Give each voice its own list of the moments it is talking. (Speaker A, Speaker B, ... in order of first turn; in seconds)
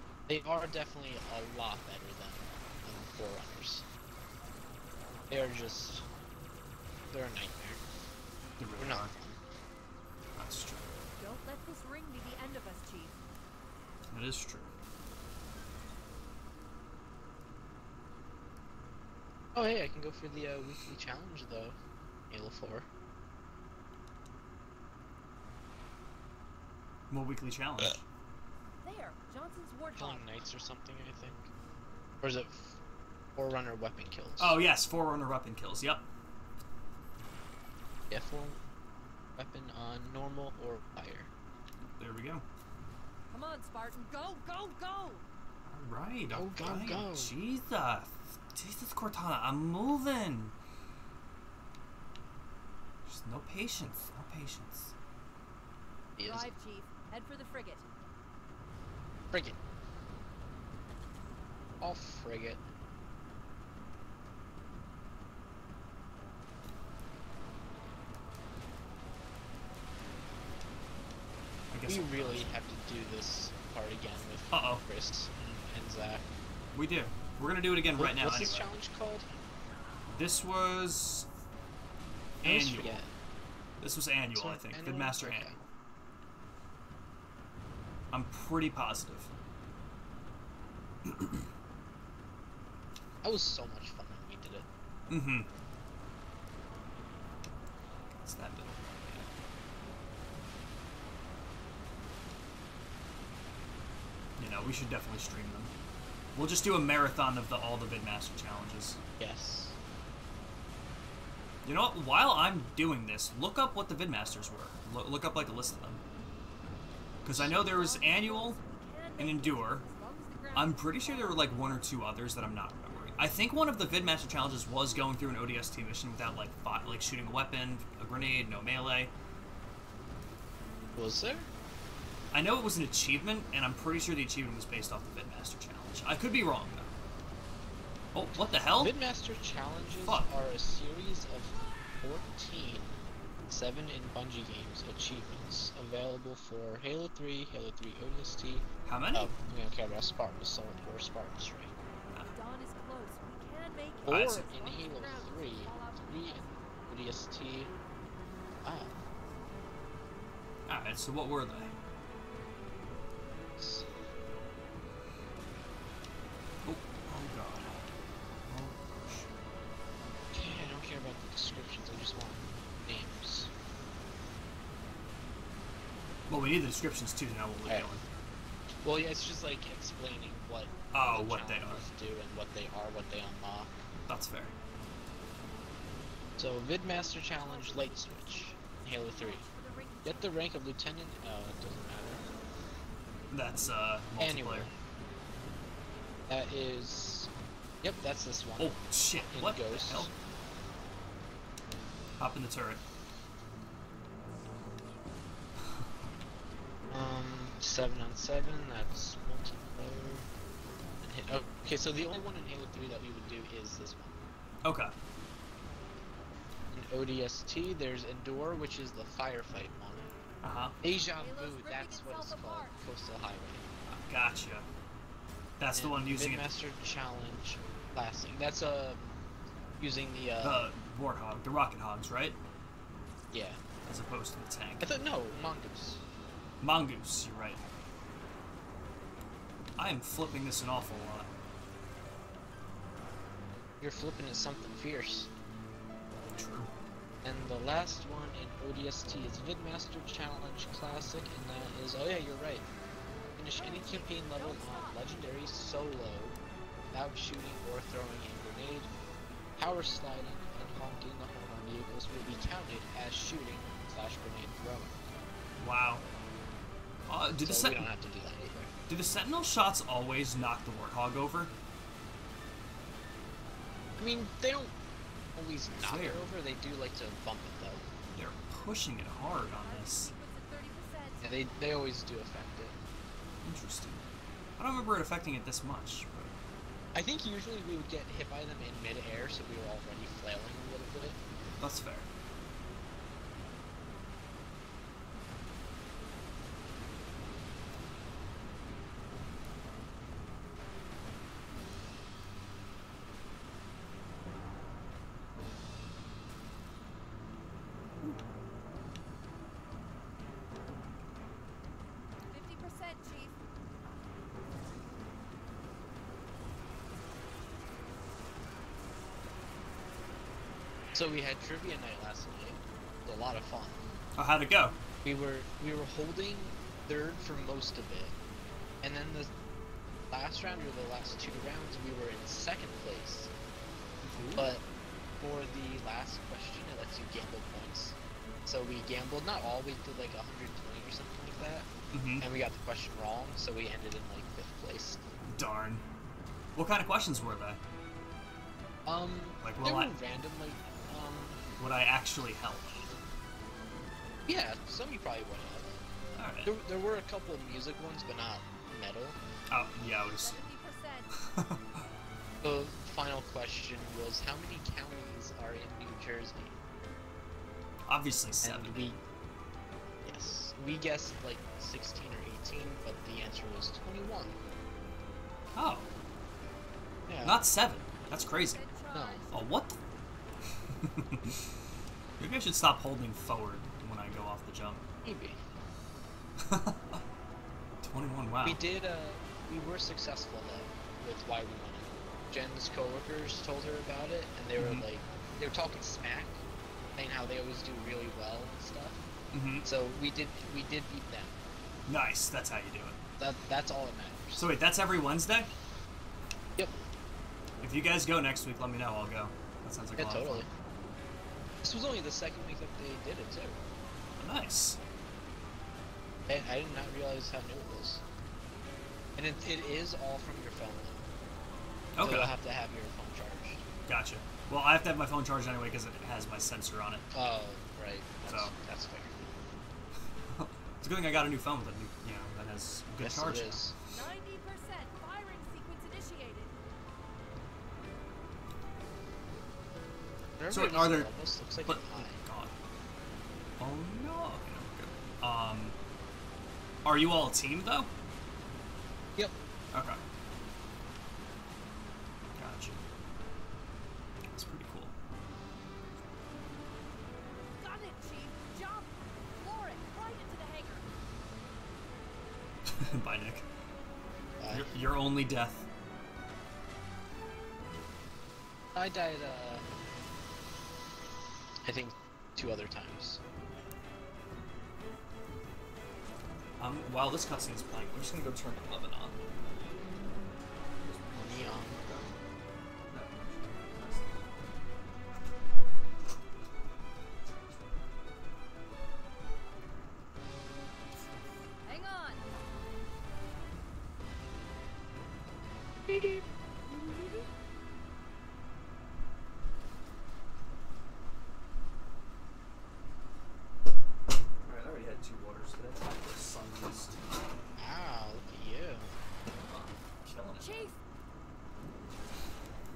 Speaker A: 0.3-3.8, 5.3-6.0, 7.1-7.8, 8.8-9.4, 19.5-21.8, 22.3-22.9, 29.9-31.5, 32.2-32.8, 33.4-34.6, 38.1-38.6, 39.4-41.3, 46.3-47.3, 56.2-56.5, 59.3-59.6, 61.8-62.6, 71.8-76.3, 78.0-79.3, 82.4-83.1, 84.3-85.6, 93.2-94.7, 109.2-109.8, 130.9-131.5, 138.8-142.9, 143.5-151.8, 154.0-157.7, 158.6-158.9, 163.6-163.9, 170.3-173.5, 178.8-183.7, 186.4-189.4, 190.0-192.2, 194.2-194.7, 196.3-197.3, 197.8-200.1, 206.9-210.3, 211.0-214.2, 216.7-220.1, 220.8-223.7, 225.7-229.2, 229.8-230.7, 233.3-233.6, 234.8-236.0, 243.8-245.3, 247.2-252.7, 253.4-256.4, 256.9-258.9, 259.6-265.0, 267.4-268.7, 274.0-274.7, 275.3-277.9, 281.2-282.8, 286.9-291.2, 320.9-323.8, 325.0-328.1, 328.8-329.3, 330.1-333.3, 334.3-334.6, 335.2-345.0, 348.8-351.4, 354.2-355.7, 356.4-359.2, 362.4-366.6, 368.4-369.0, 370.0-374.4, 377.1-377.4, 378.9-379.2, 385.0-385.4, 388.4-396.4, 396.9-399.1, 399.6-401.4, 403.2-404.5, 409.9-410.5, 411.6-413.6, 416.3-418.0, 419.1-421.1, 422.0-423.6, 427.1-429.1, 433.0-433.7, 440.4-442.2, 464.4-464.7, 468.7-469.6, 471.6-473.2, 481.1-481.9, 495.9-496.2, 507.6-508.9
Speaker B: 8.6-9.1, 10.3-10.9, 14.1-14.7, 27.1-28.0, 34.4-36.0, 41.9-42.4, 45.6-50.5, 53.0-54.9, 71.7-72.5, 74.5-74.8, 76.7-78.7, 80.1-81.3, 82.4-83.0, 83.8-85.7, 88.1-89.3, 95.1-95.5, 98.1-99.3, 104.4-105.7, 106.3-109.0, 111.6-116.0, 117.2-118.6, 119.2-119.8, 120.5-129.1, 132.3-136.9, 138.1-138.9, 148.8-149.3, 154.1-154.5, 160.7-161.7, 166.6-167.9, 168.4-169.3, 176.3-178.0, 180.9-181.8, 184.1-184.5, 193.3-194.7, 198.6-200.1, 202.2-202.8, 214.6-214.9, 220.4-220.8, 223.9-224.7, 225.6-226.5, 230.4-232.4, 233.8-234.9, 236.6-237.6, 239.8-241.3, 246.3-246.7, 265.6-266.0, 267.1-267.9, 268.9-271.5, 275.7-276.2, 278.1-280.1, 283.4-284.0, 284.6-286.4, 291.6-292.1, 324.1-324.8, 334.1-334.5, 341.9-342.3, 345.2-345.8, 346.5-347.6, 349.4-349.9, 351.6-352.8, 356.1-356.5, 359.5-360.4, 361.1-361.8, 367.9-368.9, 375.5-375.9, 377.2-378.6, 379.3-379.8, 380.8-381.4, 382.2-384.8, 386.4-387.0, 387.8-388.6, 394.6-394.9, 399.3-399.6, 401.9-403.0, 404.4-405.5, 407.6-410.5, 414.2-414.8, 421.9-422.3, 423.9-427.1, 428.2-428.5, 430.3-433.6, 440.5-442.5, 443.6-445.8, 446.8-447.9, 449.7-450.0, 452.4-452.8, 454.3-454.9, 462.7-463.4, 464.6-465.7, 476.6-479.2, 480.8-482.1, 482.9-484.3, 504.4-507.0, 509.4-510.7
Speaker C: 11.2-13.2, 28.8-30.4, 43.3-45.2, 56.2-57.9, 117.3-121.8, 152.3-156.7, 187.4-190.5, 221.2-222.8, 253.6-255.0, 279.4-281.3, 312.3-313.4, 360.2-361.1, 378.4-379.4, 433.9-436.5, 457.6-460.9, 491.6-492.2, 510.4-510.8